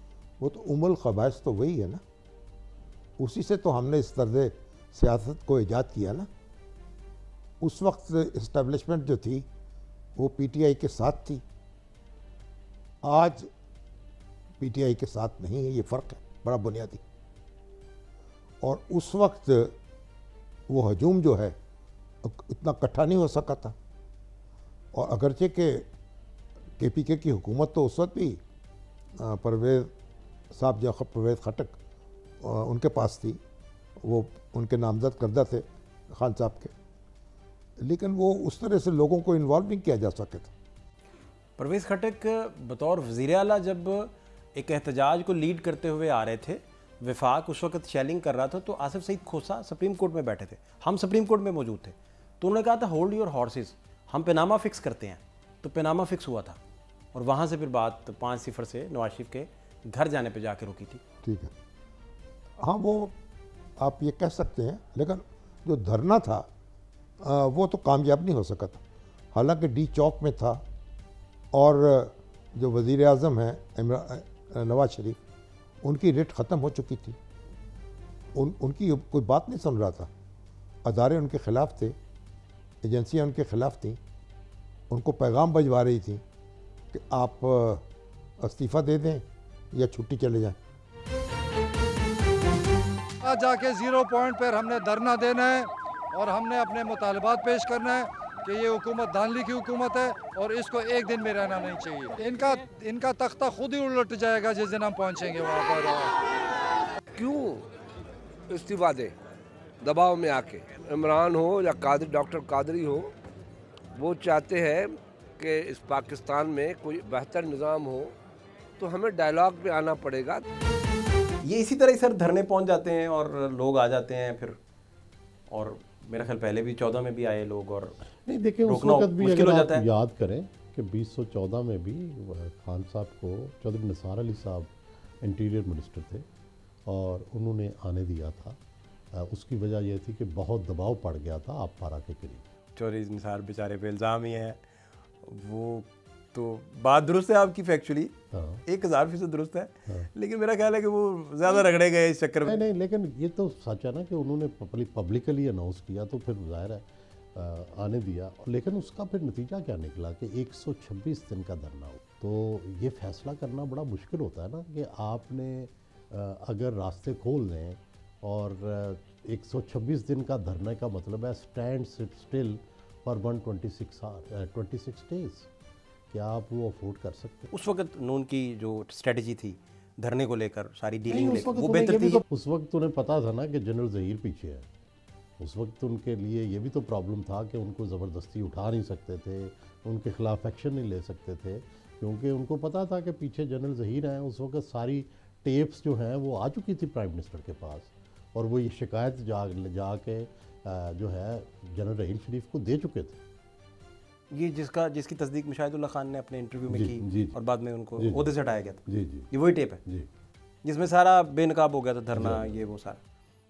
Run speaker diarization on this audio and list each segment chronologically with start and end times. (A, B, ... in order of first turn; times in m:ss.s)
0:00.4-0:02.0 A
0:03.2-0:06.3 A
0:07.6-0:09.5 A
0:10.2-0:11.4 A
0:13.0-0:13.5 A
0:14.6-0:17.0 A
0:18.6-0:19.7 A
0:20.7-0:21.6 A
0:22.2-0:23.7 A
0:24.9-0:25.9 A
0:26.8-0:28.4 A
0:29.2-0:29.9 A
0:30.5-0:31.8 A
0:32.4-0:33.4 A
0:34.0-0:36.7 A
0:37.8-0:40.5 A
0:41.6-0:56.6 B
0:57.1-1:01.0 B
1:01.2-1:01.5 A
1:02.6-1:03.1 A
1:03.8-1:06.5 A
1:07.2-1:08.8 A
1:09.3-1:10.6 A
1:11.5-1:15.2 A
1:15.8-1:17.2 A
1:18.3-1:20.1 A
1:20.8-1:22.0 A
1:22.8-1:24.0 A
1:24.9-1:26.2 A
1:26.9-1:27.8 A
1:28.4-1:30.6 A
1:33.2-1:46.1 C
1:47.1-1:47.6 D
1:48.5-1:49.1 D
1:49.8-1:53.1 D
1:54.0-1:58.1 D
1:58.8-2:00.4 D
2:01.4-2:04.6 B
2:05.5-2:08.0 B
2:08.2-2:14.7 E
2:08.6-2:09.8 B
2:15.2-2:16.2 E
2:16.9-2:18.6 E
2:19.1-2:22.4 E
2:22.8-2:24.6 B
2:25.2-2:28.1 B
2:28.3-2:28.6 E
2:28.6-2:32.6 B
2:32.4-2:55.5 E
2:56.1-2:57.5 E
2:57.5-3:02.2 B
3:01.1-3:04.7 E
3:05.4-3:23.2 E
3:24.3-3:29.8 B
3:26.7-3:27.3 E
3:28.0-3:28.3 E
3:28.9-3:29.3 E
3:30.6-3:33.0 B
3:32.1-3:32.6 E